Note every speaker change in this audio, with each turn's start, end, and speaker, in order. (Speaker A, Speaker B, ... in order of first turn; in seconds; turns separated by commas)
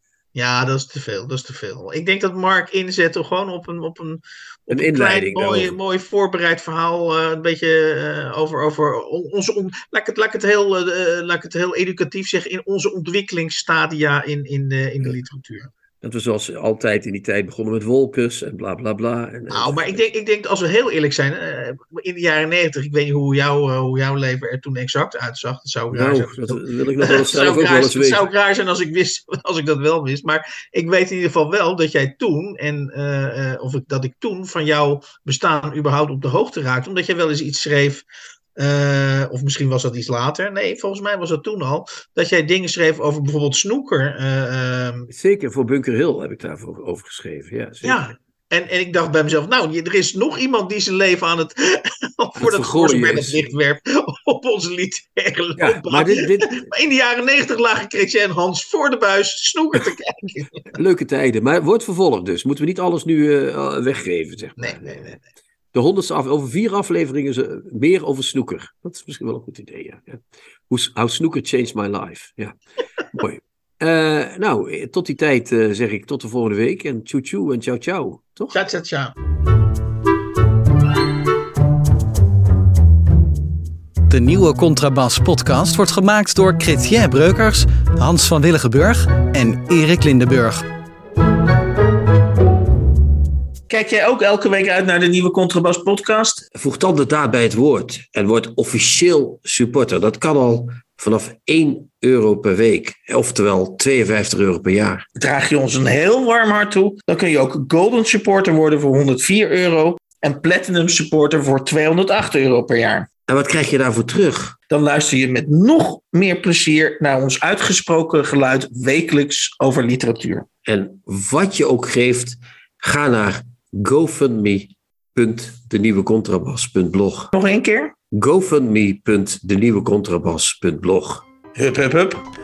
Speaker A: 0.3-15.7, Speaker B: 4.7-5.8, Speaker B: 16.0-20.0, Speaker A: 19.5-38.0, Speaker B: 25.9-28.3, Speaker A: 38.5-45.1, Speaker B: 45.1-48.0, Speaker A: 47.8-60.7, Speaker B: 52.4-53.5, Speaker B: 55.6-56.7, Speaker B: 60.7-65.2, Speaker A: 64.6-65.2, Speaker B: 65.7-72.6, Speaker B: 73.1-78.6, Speaker A: 78.5-79.1, Speaker C: 84.1-90.6, Speaker A: 93.7-96.4, Speaker B: 96.5-105.0, Speaker A: 105.2-113.1, Speaker B: 113.3-114.5, Speaker A: 114.7-120.5, Speaker B: 120.6-127.3, Speaker A: 127.3-127.9, Speaker B: 128.1-131.2, Speaker A: 131.5-132.2